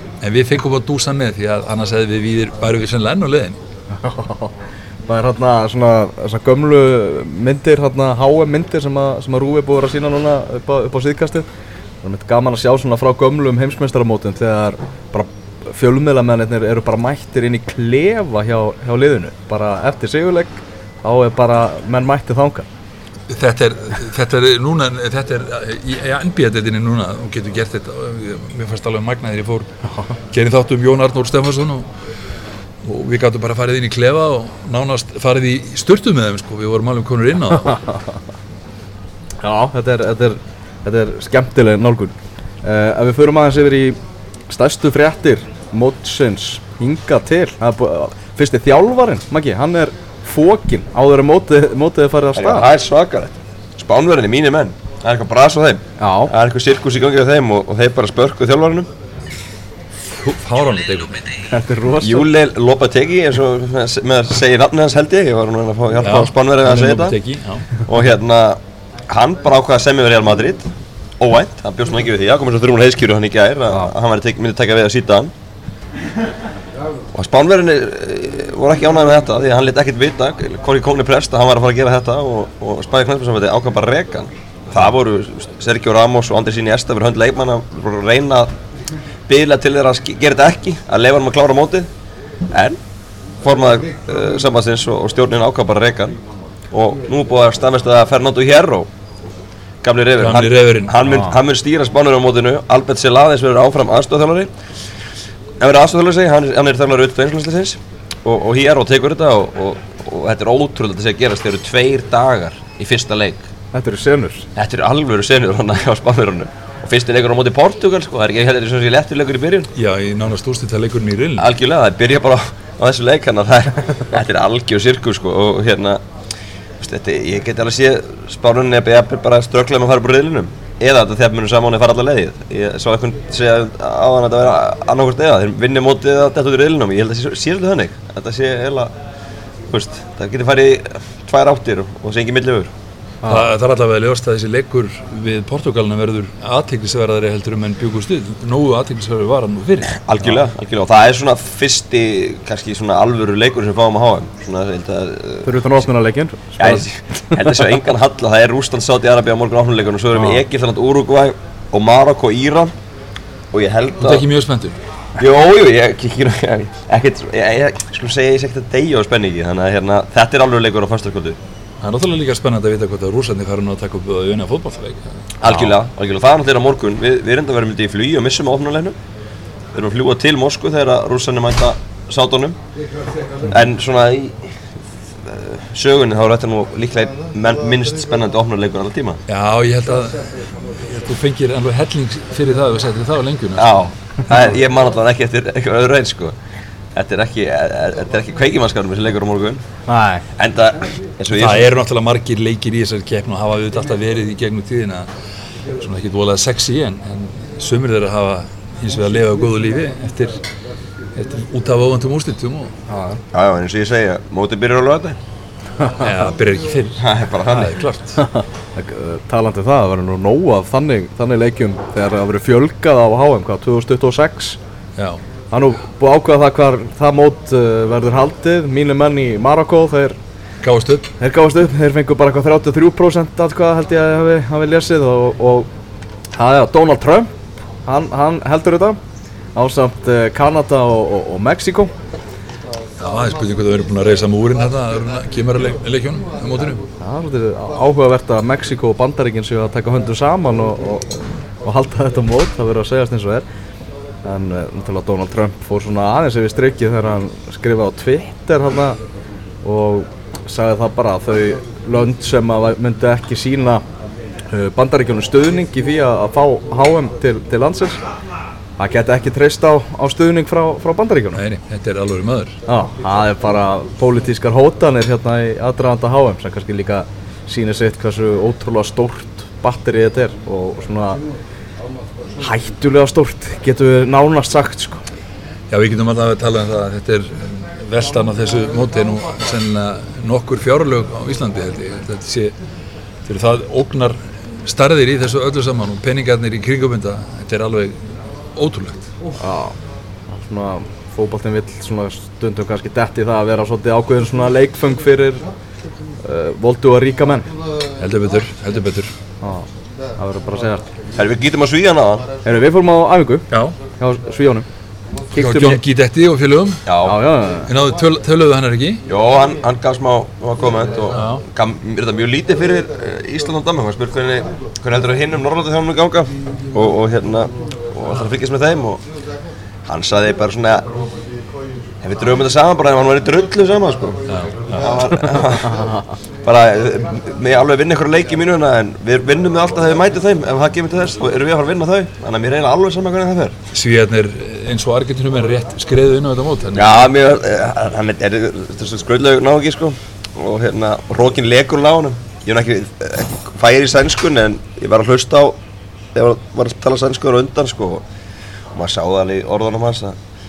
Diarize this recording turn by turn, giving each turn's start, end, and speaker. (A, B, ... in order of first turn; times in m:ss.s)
0:00.2-0:03.6 A
0:03.9-0:04.5 B
0:05.1-0:11.5 B
0:12.0-0:22.6 B
0:23.3-0:29.7 A
0:29.8-0:30.2 B
0:30.3-0:31.9 A
0:32.8-0:37.8 A
0:37.6-0:38.0 B
0:39.4-0:44.0 B
0:44.5-0:52.7 B
0:52.4-0:58.9 C
0:56.0-0:56.3 B
1:00.0-1:01.3 A
1:01.5-1:02.3 B
1:02.0-1:07.2 C
1:06.0-1:07.8 A
1:07.8-1:15.3 C
1:17.1-1:28.5 C
1:29.3-1:31.9 C
1:32.5-1:32.8 C
1:33.4-1:36.2 C
1:36.7-1:38.9 C
1:39.8-1:44.5 C
1:40.2-1:41.0 A
1:41.0-1:41.4 B
1:45.6-1:53.5 C
1:53.7-1:54.5 B
1:54.6-1:59.7 C
1:59.7-2:01.5 A
2:01.4-2:06.0 C
2:06.8-2:18.9 C
2:19.7-2:22.7 C
2:23.2-2:23.5 B
2:23.3-2:29.9 A
2:29.9-2:35.9 C
2:35.4-2:37.7 B
2:36.6-2:42.7 C
2:40.1-2:40.4 B
2:43.5-2:44.3 C
2:44.0-2:44.8 A
2:45.2-2:51.4 C
2:51.8-2:55.7 A
2:55.4-2:59.0 C
2:59.7-3:02.6 C
3:03.5-3:04.6 C
3:05.2-3:09.2 C
3:09.3-3:13.8 A
3:13.6-3:16.3 C
3:16.9-3:19.6 C
3:19.9-3:20.2 B
3:20.4-3:21.7 C
3:21.3-3:25.1 A
3:25.8-3:30.4 A
3:31.1-3:32.7 A
3:32.9-3:33.2 B
3:33.3-3:35.2 C
3:36.0-3:38.2 A
3:37.0-3:37.8 C
3:38.2-3:44.6 B
3:45.0-3:45.2 A
3:45.5-3:50.2 B
3:50.6-3:51.1 A
3:51.2-3:55.7 B
3:56.3-3:57.3 B
3:57.8-3:59.0 B
3:59.6-4:01.9 B
4:03.0-4:06.8 A
4:07.0-4:13.4 B
4:14.2-4:19.0 B
4:19.6-4:23.8 B
4:24.5-4:28.0 B
4:28.8-4:31.4 B
4:31.3-4:32.6 A
4:32.7-4:41.2 B
4:42.4-4:45.0 B
4:45.7-4:52.5 A
4:53.2-4:59.1 A
4:59.4-4:59.7 B
5:00.3-5:05.4 B
5:06.2-5:07.5 B
5:08.0-5:09.1 A
5:09.4-5:10.9 B
5:11.1-5:12.3 C
5:12.4-5:13.4 B
5:13.5-5:13.8 A
5:14.0-5:14.6 B
5:15.3-5:15.8 B
5:15.3-5:16.9 A
5:16.8-5:17.2 C
5:17.0-5:17.7 B
5:17.6-5:19.0 A
5:19.1-5:29.0 C
5:21.1-5:21.4 A
5:29.9-5:30.8 C
5:32.0-5:34.2 C
5:34.3-5:35.4 A
5:34.7-5:35.9 C
5:35.6-5:36.0 B
5:36.4-5:43.6 C
5:43.7-5:47.1 A
5:46.7-5:55.5 C
5:56.1-5:58.0 C
5:58.7-6:00.2 C